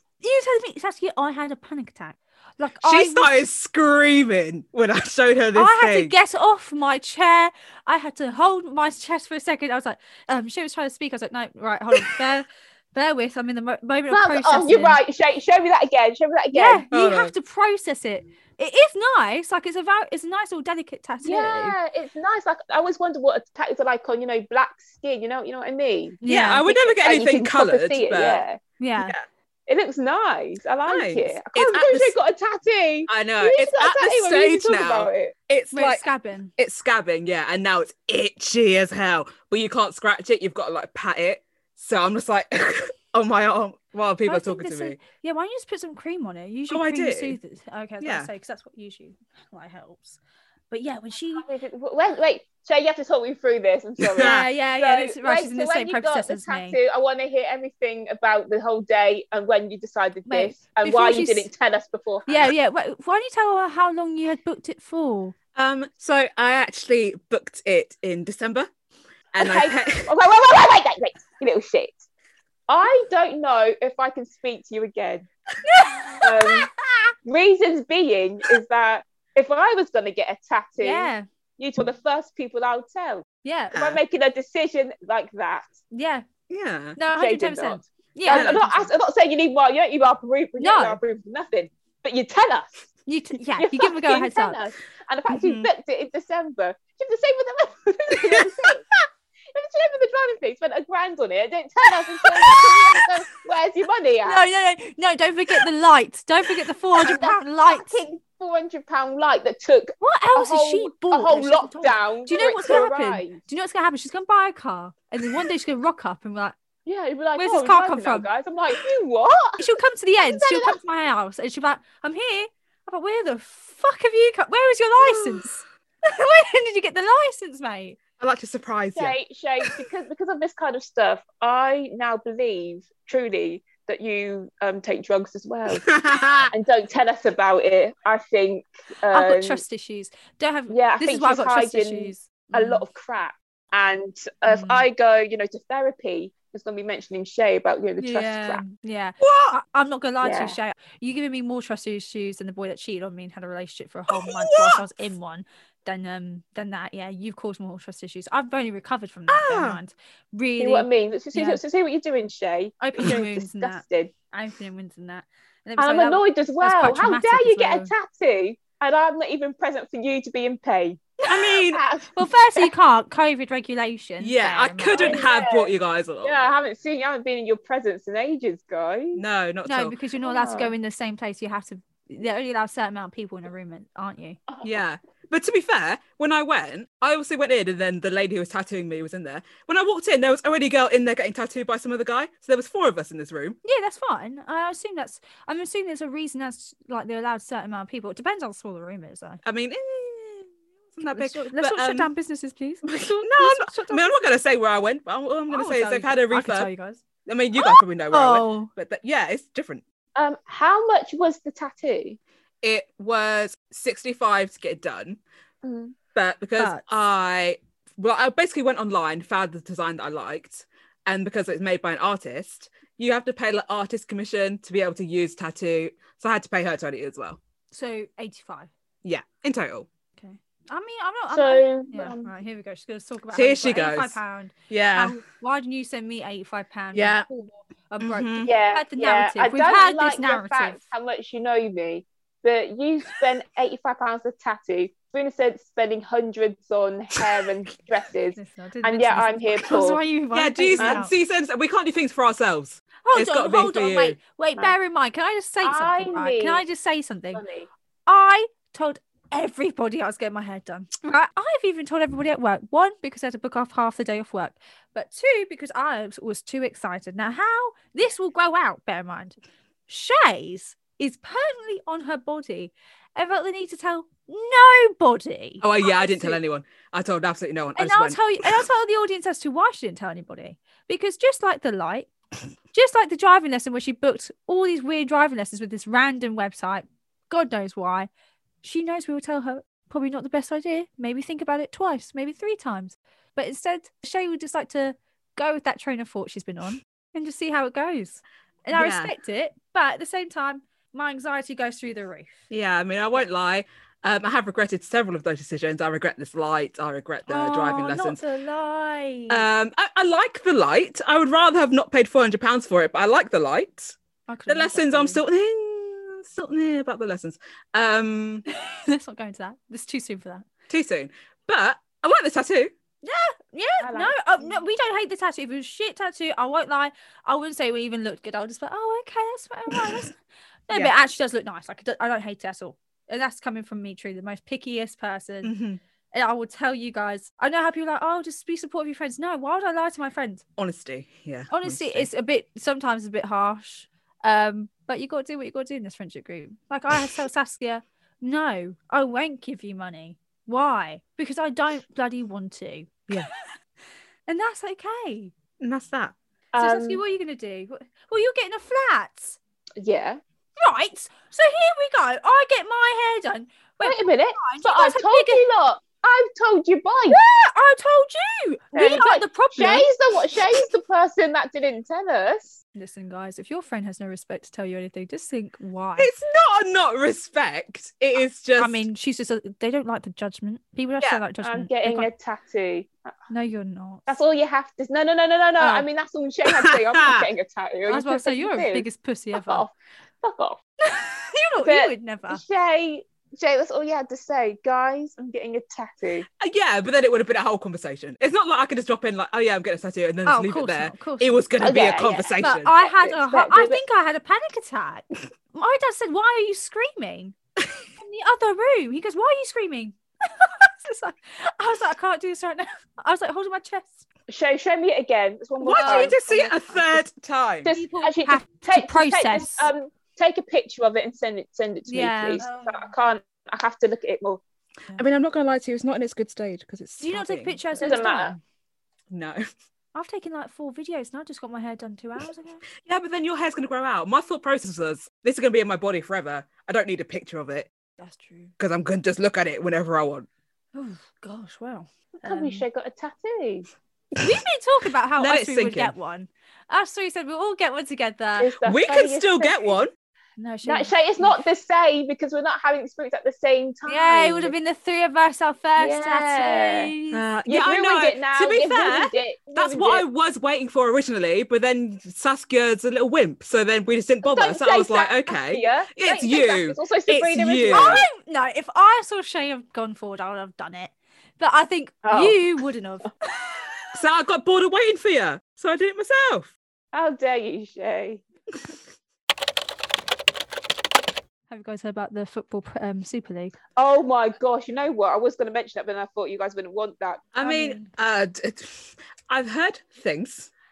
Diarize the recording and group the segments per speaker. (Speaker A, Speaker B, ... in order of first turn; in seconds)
Speaker A: 0.2-3.4, 5.5-15.0, 16.5-21.8, 26.2-26.6, 28.8-29.1, 35.7-36.5, 44.2-50.2, 50.7-51.5, 54.2-56.8, 60.3-61.5, 62.3-65.3, 75.6-77.0, 80.8-81.2, 83.4-83.8, 85.9-86.2, 87.0-88.9, 90.6-91.0, 93.1-94.6, 104.2-108.0, 110.0-116.6, 117.4-118.3, 119.6-128.0, 139.1-142.8, 144.5-144.8, 148.0-161.6, 162.8-167.9, 172.1-175.2, 179.6-184.4, 193.6-199.4, 201.1-204.1, 205.5-207.0, 207.6-208.7, 216.6-216.8, 227.7-228.7, 230.2-240.8, 248.3-251.1, 253.0-257.4, 258.1-269.4, 269.9-276.4, 277.8-282.1, 282.7-288.1, 288.6-302.4, 307.3-309.4, 314.3-315.2, 318.5-320.5, 323.0-335.5, 336.1-340.4, 341.5-353.5, 354.3-355.3, 356.6-359.4, 360.6-365.4, 367.1-369.9, 372.7-376.1, 378.6-382.1, 383.3-384.1, 385.6-385.9, 387.9-389.6, 390.8-392.4, 400.2-401.4, 402.4-407.3, 408.0-414.1, 415.7-416.8, 417.7-419.7, 421.9-422.9, 427.0-428.4, 429.9-432.6, 438.0-438.5, 440.7-442.6, 444.2-448.5, 450.4-451.4, 453.9-457.2, 467.7-473.6, 481.5-483.6, 487.4-487.9
Speaker B: 2.8-6.1, 16.9-17.3, 26.2-28.4, 29.0-29.2, 30.8-32.1, 33.1-36.0, 36.6-45.0, 46.7-47.4, 48.0-48.3, 54.0-54.4, 65.5-68.7, 69.3-70.1, 83.7-84.0, 86.5-87.0, 88.3-88.6, 95.3-95.7, 128.2-129.2, 135.7-136.5, 149.2-149.6, 154.1-154.8, 159.3-159.8, 171.3-171.8, 174.2-176.4, 179.1-179.9, 184.6-193.6, 199.4-202.1, 202.8-206.7, 207.2-209.8, 212.6-215.2, 216.1-227.4, 229.0-229.9, 233.3-235.2, 236.9-237.2, 238.0-238.5, 250.3-254.2, 275.6-278.6, 298.7-299.1, 302.5-308.2, 309.3-313.9, 314.5-318.4, 320.7-322.7, 335.4-335.8, 340.6-342.1, 355.6-356.1, 376.0-378.9, 386.5-387.3, 396.4-402.7, 415.6-417.7, 425.0-427.8, 429.1-429.4, 432.8-437.7, 438.6-440.3, 445.2-445.9, 448.6-449.9, 457.1-468.0, 473.9-476.5, 487.3-490.5
Speaker C: 14.1-16.9, 21.2-28.6, 29.7-35.3, 51.4-62.5, 69.4-72.0, 72.7-75.3, 76.2-76.7, 77.2-85.7, 87.1-92.8, 93.6-98.9, 99.5-104.5, 106.9-113.4, 116.8-119.7, 120.2-120.8, 128.9-139.6, 140.7-148.6, 150.2-150.6, 160.6-164.1, 165.8-172.7, 174.9-179.2, 180.2-180.7, 184.5-184.8, 210.1-212.2, 215.6-215.9, 231.3-232.3, 238.4-250.0, 250.8-251.0, 255.6-256.6, 257.3-257.7, 323.8-324.6, 356.5-357.0, 359.8-360.2, 363.8-367.2, 368.7-372.6, 381.4-383.1, 384.1-390.6, 391.6-396.3, 401.6-403.8, 414.3-416.2, 417.6-424.4, 427.8-428.3, 442.2-443.7, 448.4-449.8, 450.6-454.5, 455.8-456.9, 457.4-460.0, 464.2-468.0, 472.0-472.4, 476.9-478.2, 483.8-487.3